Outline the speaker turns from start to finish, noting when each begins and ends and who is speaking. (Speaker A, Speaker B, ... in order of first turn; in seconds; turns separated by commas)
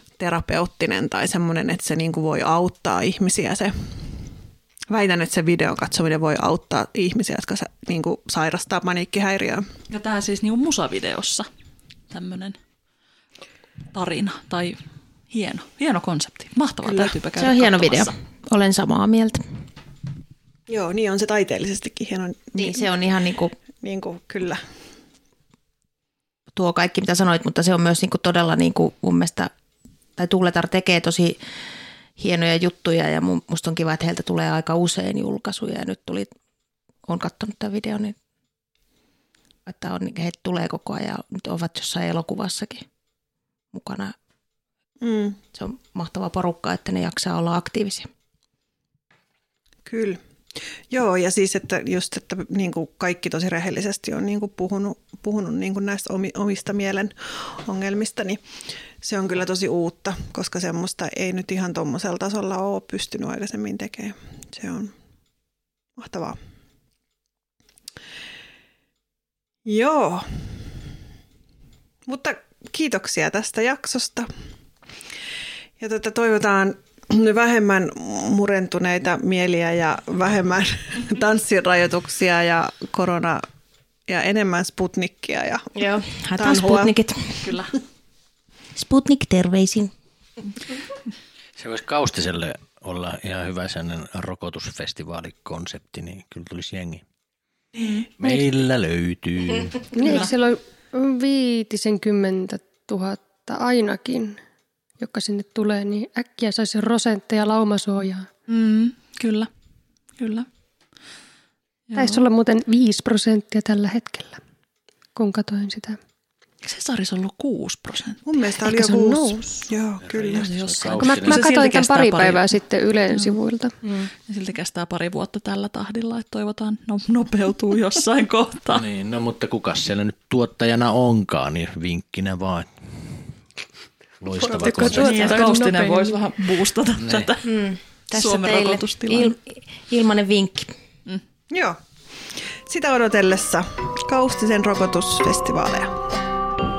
Speaker A: 0.2-4.0, Speaker A: 4.9-9.6, Speaker B: 9.9-11.5, Speaker B: 12.1-12.6, Speaker B: 13.9-18.1, Speaker C: 17.4-19.4, Speaker A: 20.7-22.9, Speaker C: 22.6-23.5, Speaker A: 23.8-24.6, Speaker C: 26.5-29.5, Speaker C: 30.2-31.4, Speaker C: 32.2-36.3, Speaker C: 37.0-38.1, Speaker C: 39.6-42.9, Speaker C: 43.7-44.1, Speaker A: 45.0-45.4, Speaker C: 45.5-48.1, Speaker A: 49.9-50.2, Speaker A: 50.9-58.4, Speaker A: 59.0-64.9, Speaker A: 66.0-66.4, Speaker A: 69.6-70.5, Speaker A: 72.0-74.3, Speaker A: 75.8-83.4, Speaker A: 84.1-85.8, Speaker C: 85.8-87.4, Speaker A: 86.3-86.9, Speaker B: 87.4-87.7, Speaker C: 88.7-89.9, Speaker D: 91.6-97.0, Speaker D: 98.2-99.9, Speaker E: 99.9-104.4, Speaker B: 100.0-100.3, Speaker E: 105.0-108.3, Speaker B: 108.5-109.5, Speaker B: 110.2-110.5, Speaker B: 111.9-112.2, Speaker E: 112.0-114.4, Speaker E: 115.1-116.0, Speaker B: 116.6-118.2, Speaker A: 118.2-120.5, Speaker E: 118.7-119.4, Speaker D: 120.0-121.4, Speaker B: 120.3-122.6, Speaker E: 121.0-124.0, Speaker B: 124.3-128.8, Speaker D: 128.7-133.2, Speaker D: 134.2-135.4, Speaker E: 134.3-136.2, Speaker B: 134.9-137.5, Speaker D: 137.0-137.3, Speaker C: 137.4-140.7, Speaker B: 138.1-139.3, Speaker A: 141.5-141.8, Speaker A: 142.3-146.0